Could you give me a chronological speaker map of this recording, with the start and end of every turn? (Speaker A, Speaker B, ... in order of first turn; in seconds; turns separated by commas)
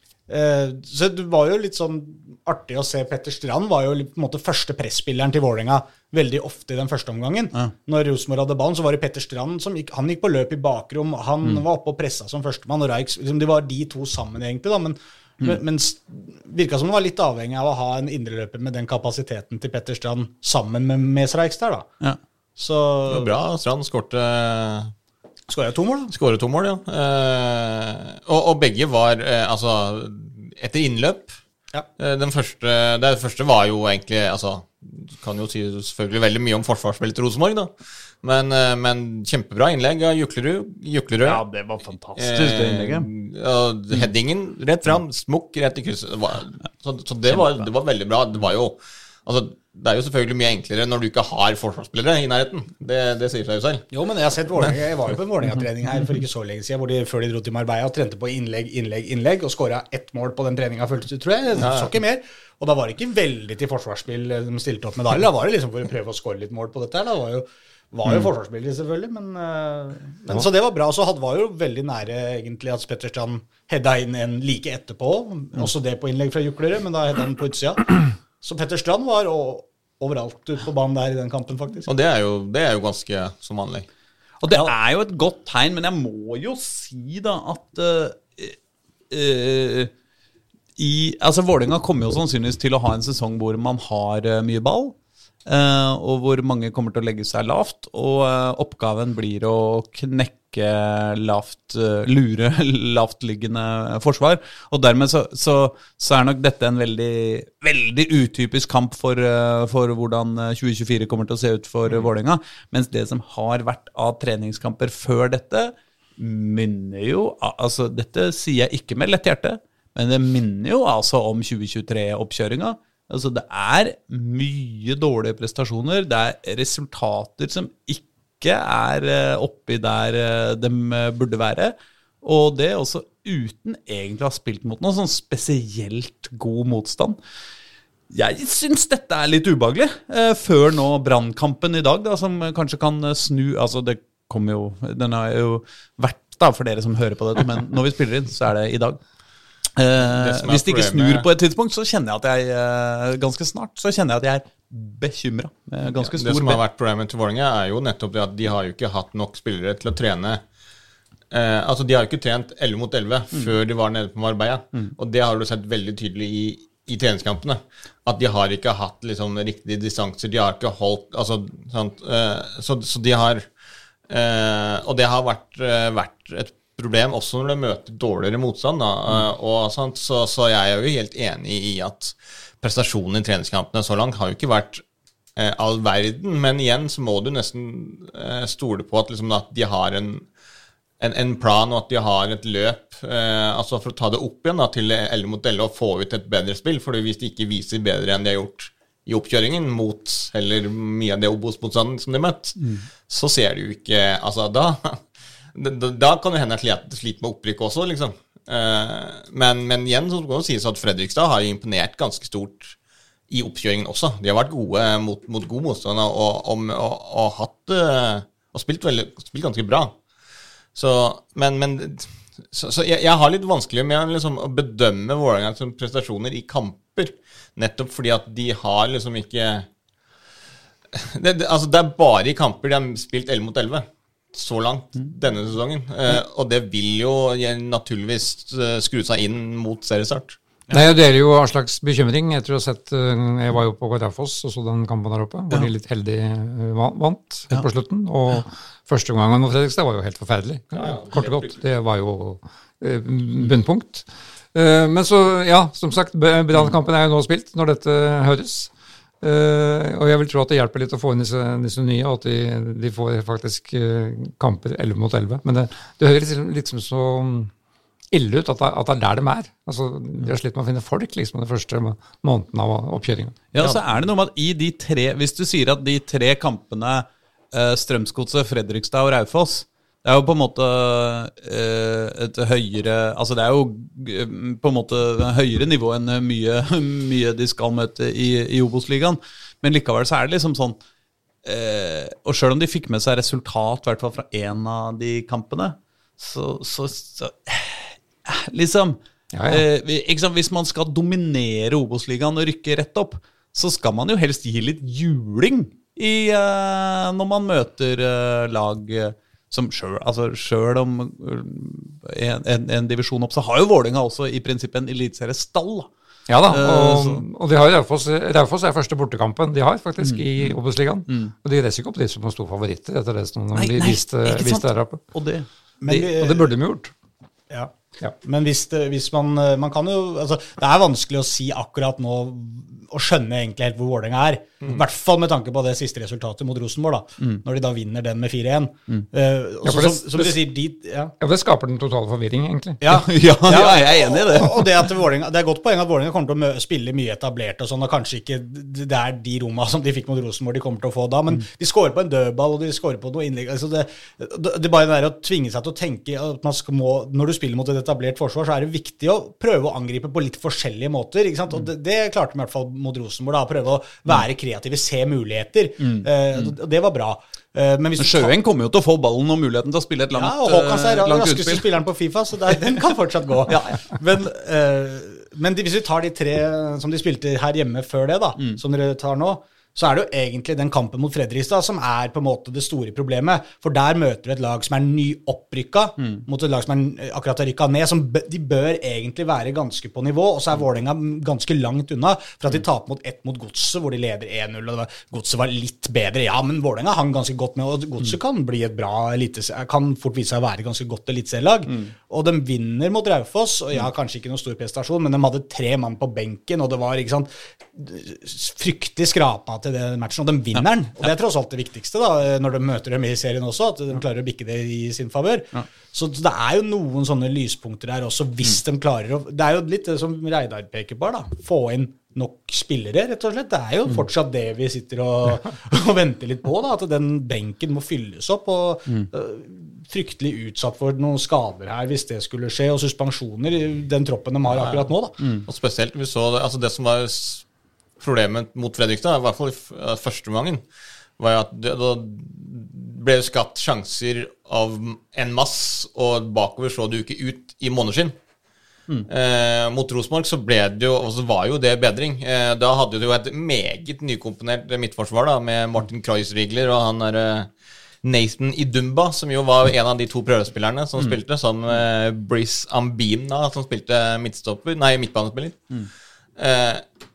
Speaker A: 0.3-21.9, Speaker A: 22.6-23.3, Speaker B: 23.1-24.9, Speaker A: 25.5-26.1, Speaker B: 26.1-31.3, Speaker B: 32.0-41.4, Speaker C: 41.2-43.1, Speaker B: 42.1-53.9, Speaker C: 47.3-47.6, Speaker A: 53.9-81.9, Speaker B: 61.6-61.9, Speaker B: 81.9-83.9, Speaker C: 84.4-88.6, Speaker A: 84.5-84.7, Speaker C: 89.1-89.9, Speaker C: 90.8-94.9, Speaker C: 95.5-137.2, Speaker C: 138.1-149.0, Speaker C: 149.8-156.6, Speaker B: 150.0-151.3, Speaker B: 156.0-160.4, Speaker B: 161.3-173.4, Speaker B: 174.1-184.8, Speaker B: 185.3-190.3, Speaker B: 191.0-212.8, Speaker B: 213.3-219.9, Speaker B: 220.7-229.7, Speaker B: 230.9-240.4, Speaker D: 240.7-258.7, Speaker B: 250.7-251.6, Speaker D: 259.2-267.5, Speaker D: 268.1-273.5, Speaker C: 273.5-290.8, Speaker C: 291.4-315.9, Speaker D: 299.3-299.6, Speaker D: 316.3-325.0, Speaker C: 316.5-317.2, Speaker C: 320.0-320.6, Speaker C: 323.5-326.0, Speaker A: 325.8-326.5, Speaker D: 326.0-326.9, Speaker A: 327.5-341.1, Speaker D: 339.6-340.5, Speaker D: 341.2-342.8, Speaker A: 342.8-368.3, Speaker C: 342.9-344.9, Speaker C: 365.8-366.5, Speaker C: 368.0-371.7, Speaker A: 370.1-435.1, Speaker C: 373.5-373.8, Speaker B: 434.5-434.9, Speaker B: 435.4-437.4, Speaker B: 438.0-440.6, Speaker B: 441.2-448.1, Speaker B: 449.1-457.5, Speaker B: 458.0-465.7, Speaker B: 466.4-466.8